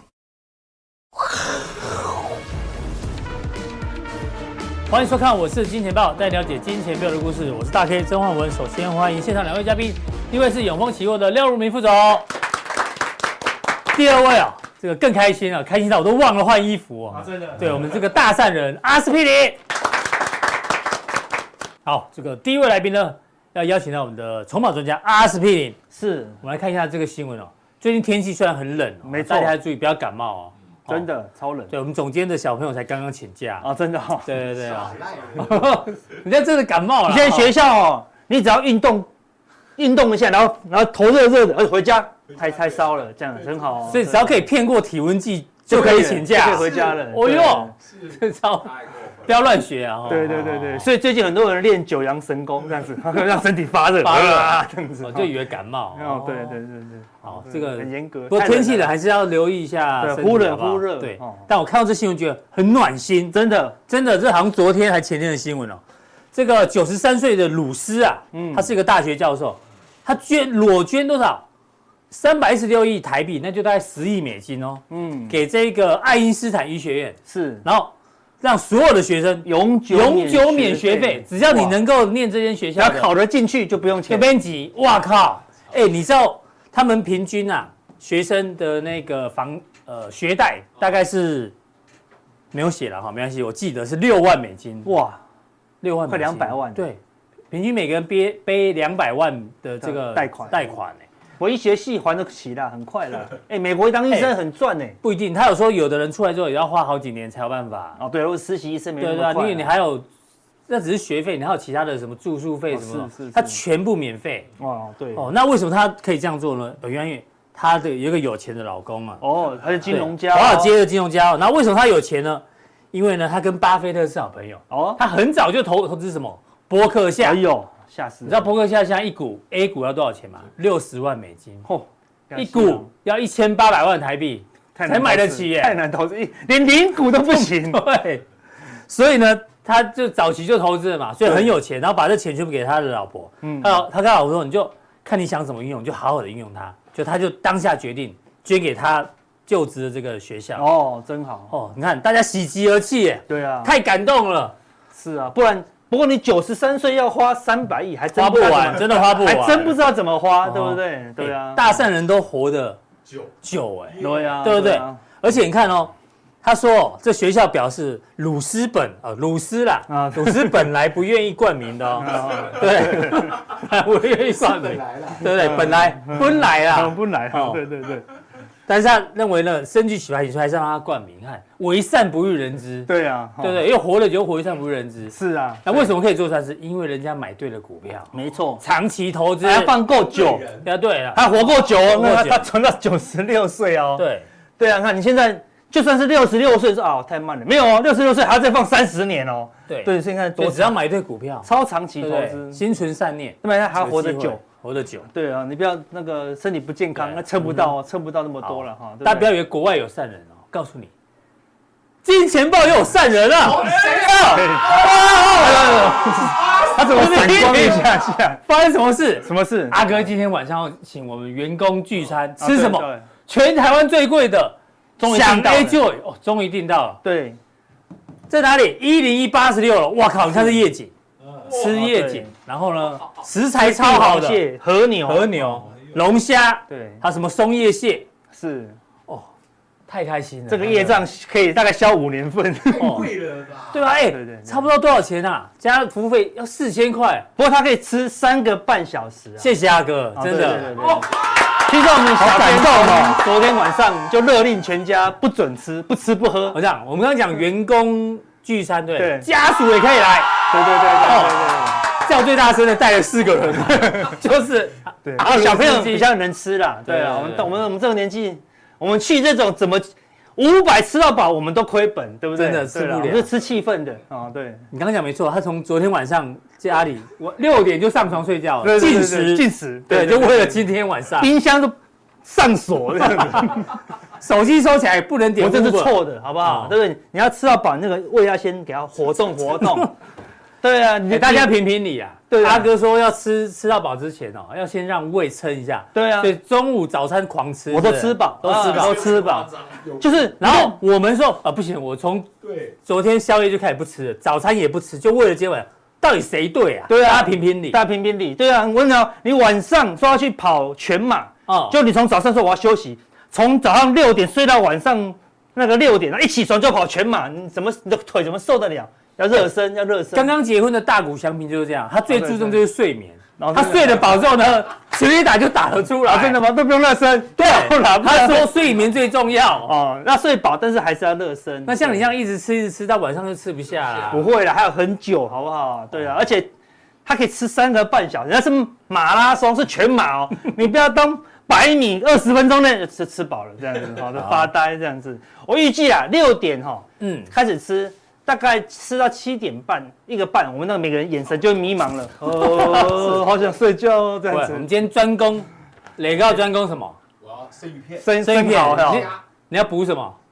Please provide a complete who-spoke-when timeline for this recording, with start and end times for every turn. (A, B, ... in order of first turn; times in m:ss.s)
0:04.9-0:12.3 A
0:13.9-0:19.6 A
0:21.8-0:25.8 A
0:25.9-0:26.4 B
0:26.4-0:31.1 A
0:29.0-0:29.6 B
0:30.9-0:31.7 B
0:31.7-0:33.7 A
0:33.6-0:34.3 B
0:34.2-0:37.5 A
0:34.6-0:35.8 C
0:37.1-0:39.1 B
0:39.8-0:44.4 B
0:43.9-0:50.9 A
0:45.7-0:47.7 B
0:47.9-0:49.3 C
0:50.1-0:55.3 B
0:54.0-0:56.6 A
0:56.0-0:58.9 B
0:57.2-1:03.4 A
1:00.0-1:01.4 B
1:03.3-1:03.8 B
1:03.9-1:11.4 A
1:08.3-1:08.7 B
1:12.1-1:23.1 A
1:14.9-1:15.4 B
1:17.3-1:17.6 B
1:19.4-1:21.8 B
1:22.8-1:24.3 B
1:24.1-1:31.5 A
1:32.5-1:34.9 A
1:34.8-1:35.2 B
1:35.8-1:41.1 A
1:36.1-1:36.9 B
1:39.8-1:40.8 B
1:41.4-1:45.0 B
1:45.0-1:48.0 A
1:48.0-1:49.7 B
1:49.0-1:50.1 A
1:50.7-1:54.5 A
1:52.7-1:53.6 B
1:54.6-1:55.3 B
1:55.2-1:59.2 A
1:59.2-2:00.7 B
1:59.9-2:07.4 A
2:04.7-2:05.0 B
2:07.2-2:08.5 B
2:08.2-2:11.7 A
2:11.6-2:12.9 B
2:12.4-2:15.8 A
2:14.8-2:17.8 B
2:17.3-2:18.2 A
2:18.9-2:30.7 A
2:21.2-2:21.5 B
2:23.4-2:23.8 B
2:30.6-2:31.5 B
2:31.5-2:34.6 A
2:33.3-2:33.7 B
2:34.9-2:41.7 B
2:38.1-2:39.8 A
2:40.4-2:42.8 A
2:43.4-2:57.6 A
2:44.0-2:44.3 C
2:44.0-2:45.0 B
2:49.9-2:50.7 B
2:52.0-2:53.3 B
2:54.5-2:55.2 C
2:55.2-2:58.1 B
2:58.7-3:02.9 A
3:02.9-3:03.6 B
3:03.4-3:09.8 A
3:05.1-3:05.9 B
3:08.1-3:08.6 B
3:09.4-3:10.5 B
3:10.0-3:10.7 C
3:10.6-3:12.5 A
3:11.1-3:14.0 B
3:14.0-3:14.3 A
3:14.6-3:20.8 B
3:19.7-3:21.5 A
3:21.4-3:22.6 B
3:22.0-3:25.1 A
3:23.4-3:24.4 B
3:25.1-3:29.4 B
3:27.0-3:27.7 A
3:28.4-3:30.9 A
3:32.0-3:36.2 A
3:33.4-3:36.8 C
3:34.2-3:38.4 B
3:36.8-3:38.0 A
3:38.5-3:47.0 A
3:39.2-3:39.8 B
3:42.4-3:43.1 B
3:45.0-3:45.8 B
3:47.0-3:47.4 B
3:48.3-3:50.9 A
3:50.3-3:50.5 B
3:51.3-3:51.5 C
3:51.4-3:54.4 A
3:51.5-3:52.3 B
3:53.6-3:55.6 B
3:55.0-3:58.1 A
3:55.7-3:56.0 C
3:56.7-3:57.0 B
3:58.3-3:58.8 B
3:59.9-4:01.1 A
4:00.5-4:03.1 B
4:02.7-4:03.8 C
4:02.8-4:03.2 A
4:03.7-4:07.3 A
4:04.1-4:04.7 B
4:07.4-4:09.5 B
4:09.4-4:10.9 A
4:10.2-4:11.1 B
4:10.7-4:11.1 C
4:11.6-4:16.6 B
4:12.2-4:13.2 A
4:16.5-4:20.4 A
4:19.0-4:19.3 B
4:20.5-4:21.8 B
4:21.0-4:26.1 A
4:25.0-4:34.7 B
4:26.8-4:27.6 A
4:32.4-4:33.3 A
4:34.7-4:41.3 A
4:38.6-4:40.6 B
4:41.2-4:43.8 B
4:44.1-4:46.8 A
4:45.4-4:49.9 B
4:50.6-4:51.6 B
4:51.1-4:59.1 A
4:52.3-4:52.7 B
4:55.9-4:56.3 B
4:57.7-5:00.8 B
4:58.5-5:00.3 C
5:00.4-5:02.3 A
5:02.4-5:02.8 C
5:02.8-5:07.8 A
5:06.9-5:20.3 B
5:11.5-5:11.8 A
5:20.1-5:26.4 A
5:22.1-5:22.6 B
5:23.4-5:24.1 B
5:26.0-5:28.5 B
5:27.4-5:29.7 A
5:29.6-5:32.0 B
5:31.7-5:34.3 A
5:34.1-5:36.5 B
5:37.0-5:54.7 B
5:44.1-5:44.5 A
5:47.0-5:47.3 A
5:52.3-5:53.3 A
5:54.3-5:57.0 A
5:57.2-5:58.1 C
5:58.0-5:59.1 B
5:58.2-6:00.2 A
5:58.9-5:59.2 C